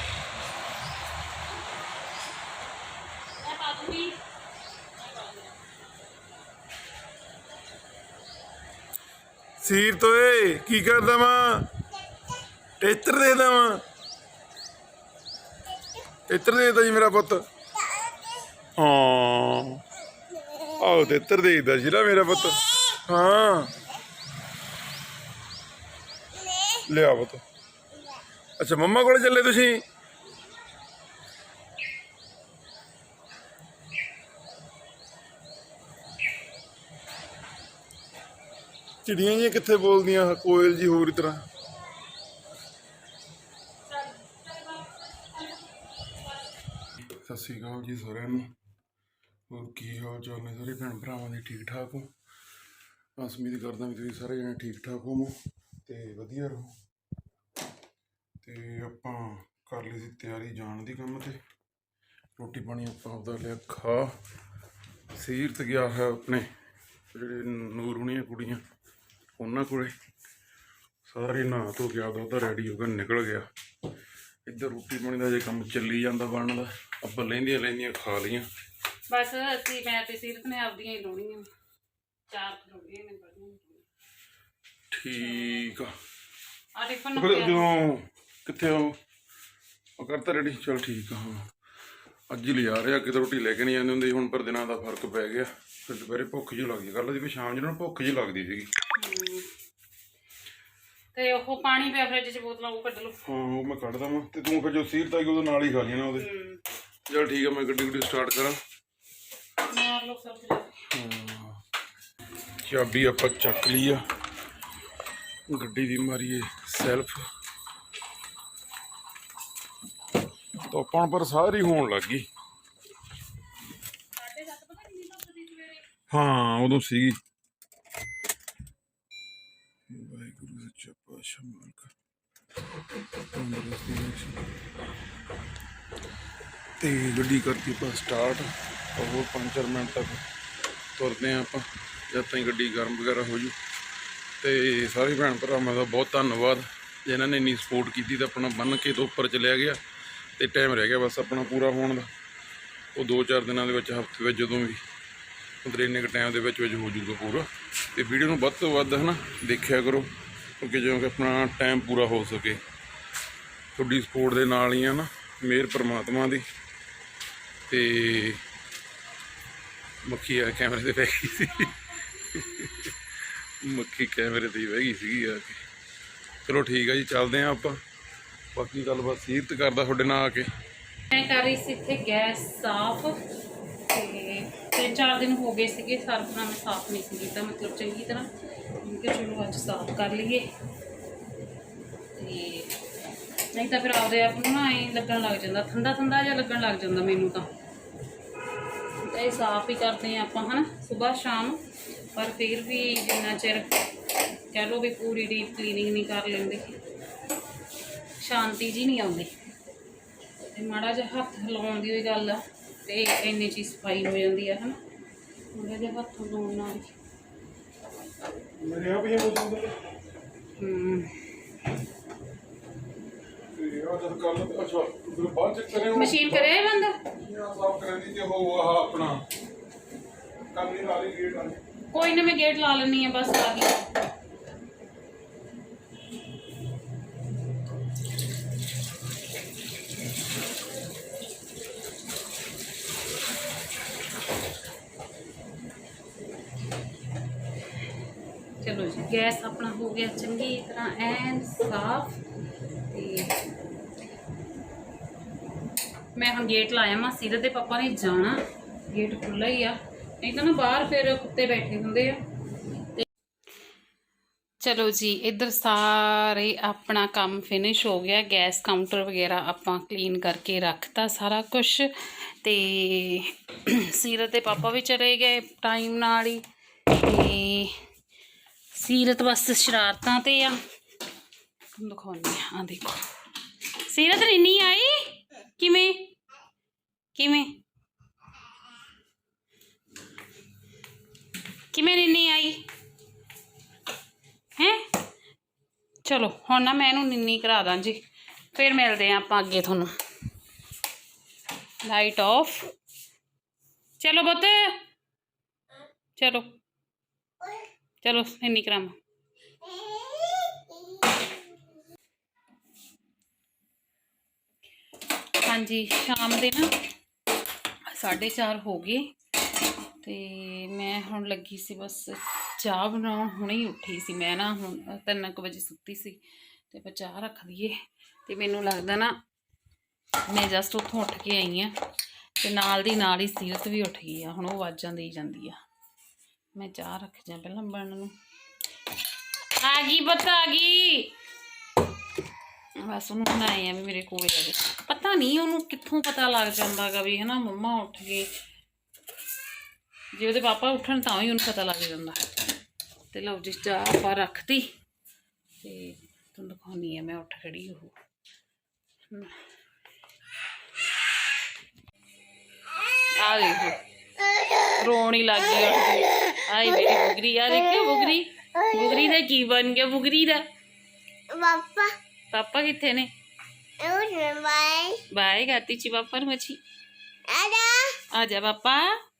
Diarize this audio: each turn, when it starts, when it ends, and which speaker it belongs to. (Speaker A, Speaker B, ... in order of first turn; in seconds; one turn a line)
Speaker A: 3.4-4.2
Speaker A: 5.0-5.5
Speaker B: 9.6-11.7
Speaker B: 12.8-13.8
Speaker B: 16.3-17.4
Speaker B: 18.8-19.8
Speaker B: 20.8-23.7
Speaker B: 26.8-27.4
Speaker B: 28.6-29.8
Speaker B: 39.0-41.4
Speaker A: 43.9-45.5
Speaker B: 47.0-48.5
Speaker B: 49.5-52.1
Speaker B: 53.2-55.3
Speaker B: 55.8-56.7
Speaker B: 58.4-61.4
Speaker B: 62.4-64.1
Speaker B: 65.1-66.5
Speaker B: 67.1-68.6
Speaker B: 69.4-69.9
Speaker B: 71.1-73.5
Speaker B: 74.5-78.5
Speaker A: 79.1-81.5
Speaker A: 82.3-83.8
Speaker B: 84.9-85.9
Speaker A: 86.7-87.7
Speaker B: 87.1-89.0
Speaker B: 90.0-91.5
Speaker B: 92.3-98.7
Speaker A: 99.0-99.5
Speaker A: 101.1-103.2
Speaker B: 103.2-106.3
Speaker A: 106.2-106.6
Speaker B: 107.1-108.6
Speaker A: 109.6-110.8
Speaker B: 110.9-111.6
Speaker B: 112.6-114.0
Speaker B: 115.5-117.2
Speaker B: 120.6-122.2
Speaker A: 124.2-125.8
Speaker B: 126.1-127.2
Speaker B: 129.9-131.9
Speaker B: 133.2-134.4
Speaker B: 136.8-140.2
Speaker B: 140.9-143.6
Speaker B: 144.4-149.8
Speaker B: 150.4-152.1
Speaker B: 152.9-154.8
Speaker B: 155.6-162.6
Speaker B: 163.8-166.4
Speaker B: 167.7-168.4
Speaker B: 170.1-175.6
Speaker B: 176.4-177.8
Speaker B: 178.5-180.5
Speaker A: 181.1-183.2
Speaker A: 183.9-188.3
Speaker A: 188.8-190.4
Speaker A: 192.1-192.7
Speaker A: 193.5-197.5
Speaker A: 199.0-201.6
Speaker A: 202.1-203.8
Speaker A: 204.5-206.8
Speaker A: 208.2-209.3
Speaker A: 210.4-214.8
Speaker A: 215.5-216.9
Speaker B: 218.6-219.8
Speaker A: 220.6-221.4
Speaker B: 223.5-226.5
Speaker A: 225.8-227.0
Speaker B: 227.1-229.2
Speaker B: 230.5-231.6
Speaker A: 231.9-233.9
Speaker A: 248.6-252.2
Speaker A: 252.9-253.4
Speaker A: 256.1-262.2
Speaker A: 264.6-277.7
Speaker A: 278.7-280.6
Speaker A: 281.8-283.1
Speaker A: 283.7-286.1
Speaker A: 287.1-287.5
Speaker A: 291.7-292.6
Speaker A: 294.6-294.8
Speaker A: 296.0-298.0
Speaker A: 298.5-299.9
Speaker A: 301.8-302.7
Speaker A: 304.0-304.8
Speaker A: 306.2-306.5
Speaker A: 308.0-308.9
Speaker C: 310.0-310.5
Speaker A: 315.4-316.7
Speaker A: 317.9-319.1
Speaker A: 320.0-329.1
Speaker A: 330.3-331.7
Speaker A: 332.4-335.6
Speaker A: 336.6-338.1
Speaker A: 339.6-341.1
Speaker A: 342.9-348.3
Speaker A: 350.1-352.2
Speaker A: 353.1-354.7
Speaker A: 355.6-357.9
Speaker A: 359.1-359.4
Speaker A: 363.1-363.8
Speaker A: 364.6-370.4
Speaker C: 371.4-371.9
Speaker A: 372.3-373.1
Speaker C: 373.8-374.9
Speaker A: 375.0-376.6
Speaker C: 377.4-377.9
Speaker A: 378.1-378.9